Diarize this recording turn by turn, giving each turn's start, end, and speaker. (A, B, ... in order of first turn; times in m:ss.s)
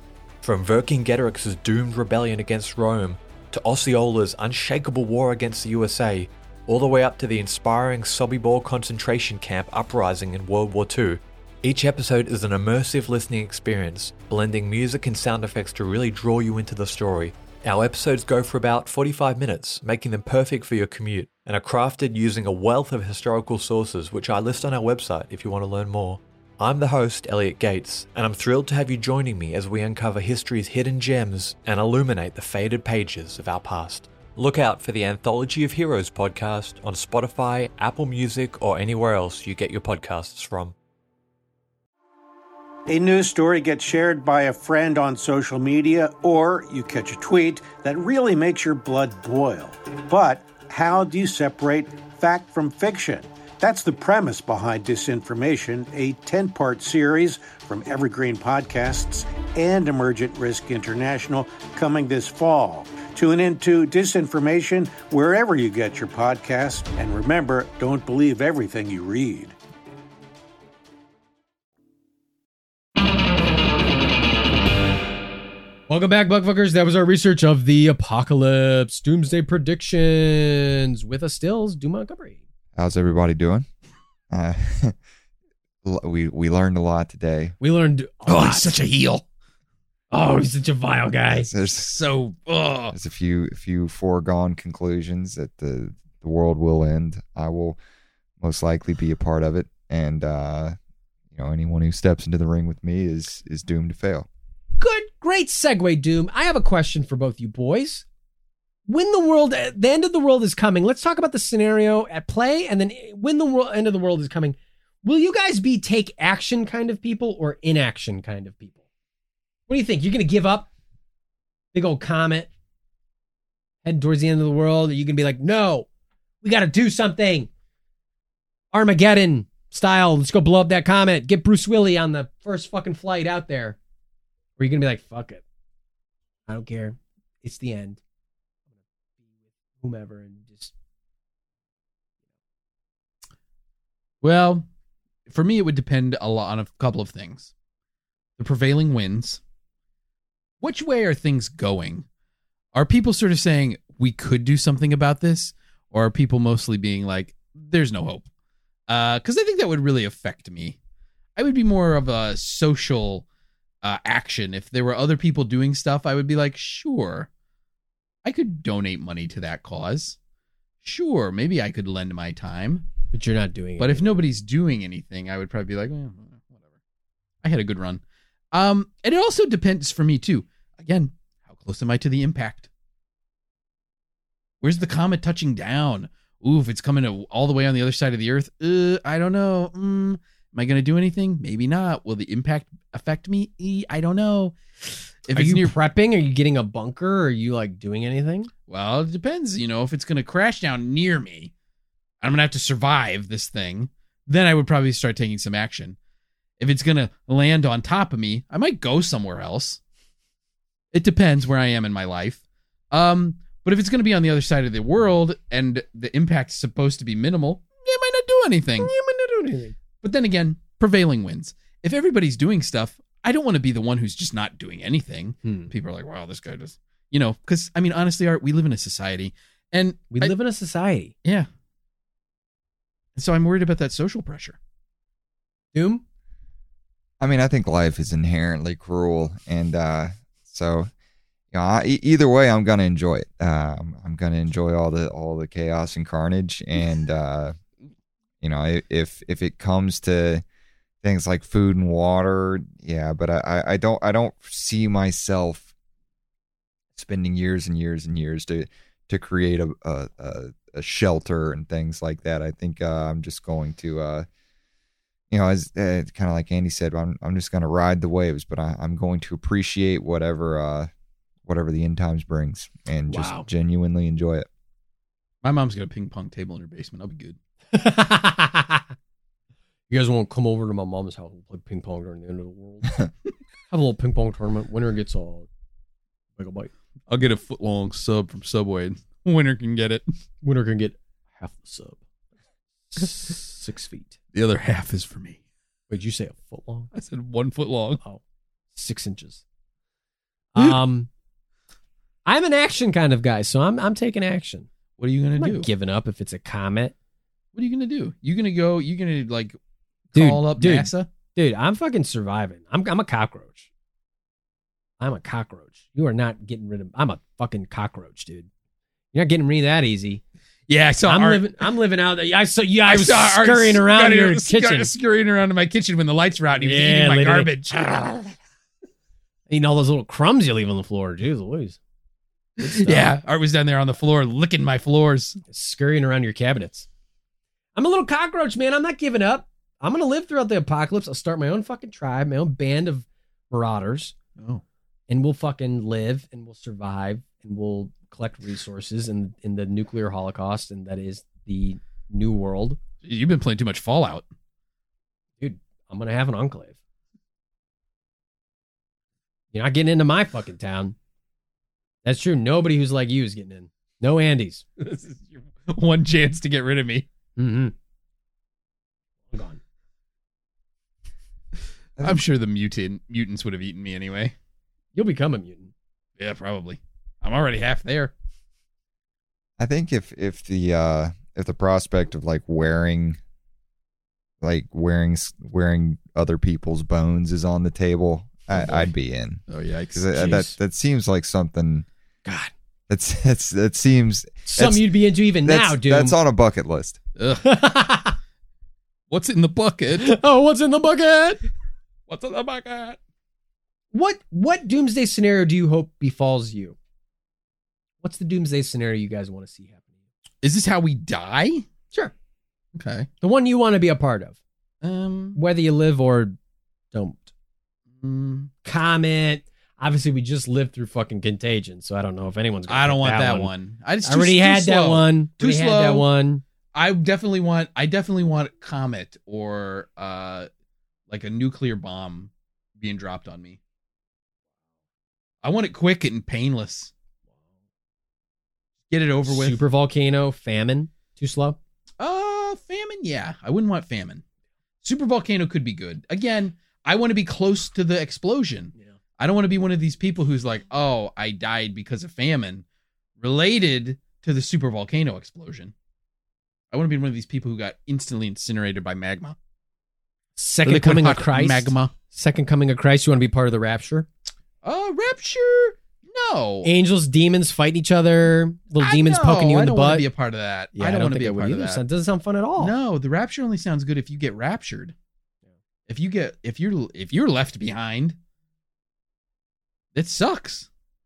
0:00.4-0:40.8 A
0:42.9-1:09.6 B
1:15.9-1:22.4 C
1:22.8-1:23.7 D
1:24.3-1:25.0 D
1:25.8-1:27.6 D
1:27.6-1:28.7 C
1:28.3-1:29.2 E
1:30.1-1:31.5 C
1:31.4-1:31.9 D
1:31.8-1:32.9 E
1:32.9-1:37.8 D
1:38.4-1:40.8 D
1:41.3-1:44.3 D
1:44.8-1:48.0 C
1:48.9-1:58.8 C
1:59.7-2:00.7 C
2:01.7-2:02.5 C
2:03.8-2:05.9 C
2:06.4-2:07.5 C
2:08.7-2:13.8 C
2:14.6-2:15.4 C
2:16.5-2:18.0 C
2:19.8-2:20.7 C
2:24.2-2:24.6 E
2:25.3-2:27.5 E
2:28.4-2:29.4 E
2:30.6-2:32.0 E
2:32.7-2:38.3 E
2:38.9-2:40.8 E
2:41.4-2:43.3 E
2:43.8-2:47.3 E
2:48.2-2:50.2 E
2:50.8-2:52.9 E
2:53.1-2:54.2 C
2:53.8-2:56.5 E
2:57.4-2:58.0 E
2:58.5-3:02.7 E
3:04.6-3:14.7 E
3:15.2-3:15.7 E
3:15.4-3:18.5 C
3:18.7-3:21.5 E
3:22.2-3:26.0 E
3:26.6-3:29.8 E
3:30.9-3:32.4 E
3:32.9-3:38.9 E
3:38.8-3:39.7 C
3:40.0-3:50.4 E
3:45.4-3:45.7 C
3:50.1-3:51.1 C
3:53.2-3:54.6 E
3:55.7-3:56.0 C
3:57.2-4:00.9 D
4:01.5-4:07.6 D
4:08.4-4:10.4 D
4:11.0-4:15.7 D
4:17.0-4:24.3 D
4:25.3-4:30.9 D
4:31.4-4:34.5 D
4:33.1-4:33.5 C
4:35.4-4:37.4 E
4:37.7-4:38.8 C
4:39.9-4:43.0 C
4:43.7-4:45.5 C
4:46.4-4:46.7 C
4:47.1-4:50.0 E
4:50.4-4:52.0 C
4:52.9-4:54.2 C
4:54.3-4:55.4 E
4:55.9-4:56.9 C
4:56.9-4:58.0 E
4:58.7-4:59.4 C
5:00.6-5:01.1 C
5:02.3-5:04.7 C
5:05.0-5:05.7 E
5:05.4-5:07.0 C
5:07.5-5:09.6 E
5:10.1-5:11.1 E
5:10.2-5:13.7 C
5:15.0-5:18.5 C
5:19.1-5:20.2 C
5:20.7-5:21.6 E
5:21.1-5:24.9 C
5:22.9-5:28.4 E
5:26.6-5:27.5 C
5:29.5-5:31.8 C
5:32.6-5:35.4 E
5:32.6-5:33.1 C
5:35.5-5:36.9 C
5:37.8-5:44.2 C
5:45.1-5:52.8 C
5:53.0-5:54.3 E
5:55.4-5:56.8 C
5:59.5-6:01.0 C
6:02.0-6:04.7 C
6:04.8-6:07.1 E
6:07.4-6:07.7 C
6:09.3-6:09.6 C
6:12.0-6:14.3 E
6:15.0-6:15.7 C
6:16.2-6:18.1 E
6:19.6-6:23.2 D
6:24.4-6:31.9 D
6:29.5-6:30.2 E
6:30.1-6:30.6 C
6:32.2-6:32.5 C
6:32.9-6:34.9 D
6:34.4-6:36.2 C
6:35.4-6:37.0 D
6:37.2-6:37.5 E
6:37.4-6:38.2 C
6:39.1-6:40.2 E
6:40.0-6:41.4 C
6:42.1-6:43.0 E
6:43.9-6:46.8 C
6:48.0-6:49.8 C
6:50.4-6:51.7 E
6:52.8-6:53.1 E
6:53.2-6:54.4 C
6:54.8-6:55.4 E
6:55.4-6:56.4 C
6:56.9-6:57.3 C
6:58.0-6:58.5 E
6:58.6-7:03.5 C
7:02.7-7:06.1 E
7:04.0-7:06.4 C
7:06.7-7:10.5 E
7:11.1-7:13.6 E
7:15.4-7:16.9 E
7:18.9-7:19.6 E
7:19.2-7:21.6 C
7:22.0-7:24.2 E
7:24.8-7:32.6 E
7:33.2-7:35.7 E
7:36.7-7:39.4 E
7:40.4-7:44.1 C
7:40.6-7:41.9 E
7:44.6-7:46.7 E
7:46.6-7:50.0 C
7:48.8-7:51.8 E
7:50.8-7:52.7 C
7:52.6-7:54.9 E
7:55.9-7:58.2 E
8:00.0-8:00.7 E